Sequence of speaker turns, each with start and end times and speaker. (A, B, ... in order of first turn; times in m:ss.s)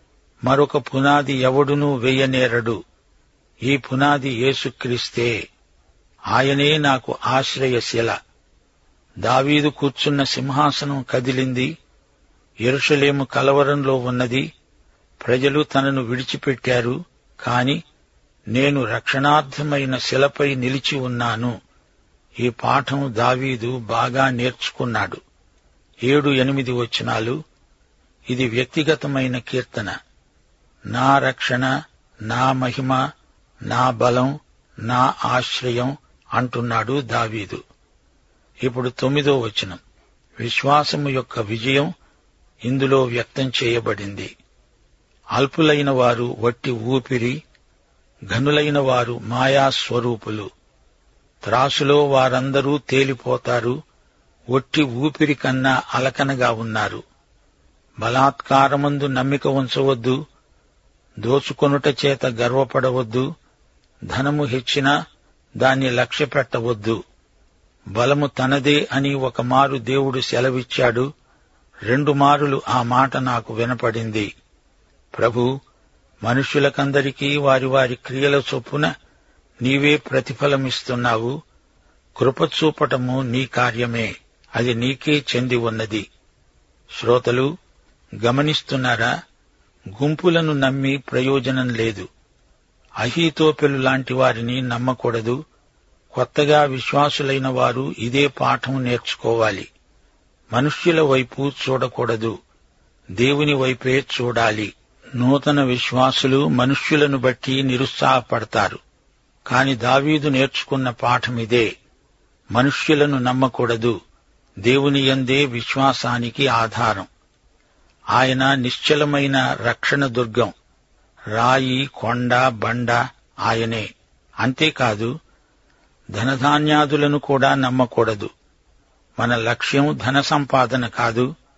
0:00.4-0:02.8 A
0:03.6-0:05.3 A
0:06.3-0:08.2 A
0:09.2-0:11.7 A
0:12.6-0:14.4 A
0:15.2-0:17.8 A
0:18.5-0:21.5 A
0:22.4-0:25.2 A
0:26.0-0:27.4 A
0:28.3-0:29.9 A
0:30.9-0:31.7 A
0:32.3-0:33.0 A
0:33.7-0:37.6 A
0:38.6-0:39.8 A
0:40.4-0:41.9 A
0:42.6-0:44.3 A
0:45.3-0:47.4 A
0:48.3-0:50.5 A
0:51.4-0:53.8 A
0:54.5-0:57.0 A
0:58.0-1:00.2 A
1:01.2-1:03.2 A
1:04.1-1:04.9 A
1:05.6-1:07.0 A
1:08.0-1:11.0 A
1:11.9-1:14.3 A
1:15.1-1:15.5 A
1:16.2-1:18.9 A
1:19.6-1:21.3 A
1:22.2-1:26.0 A
1:27.0-1:27.5 A
1:28.2-1:29.1 A
1:29.9-1:32.1 A
1:33.0-1:35.4 A
1:36.1-1:39.7 A
1:40.5-1:42.3 A
1:43.2-1:48.8 A
1:49.5-1:51.7 A
1:52.5-1:53.9 A
1:54.6-1:57.1 A
1:58.2-2:00.5 A
2:01.3-2:03.8 A
2:04.4-2:05.1 A
2:06.1-2:08.3 A
2:09.2-2:11.3 A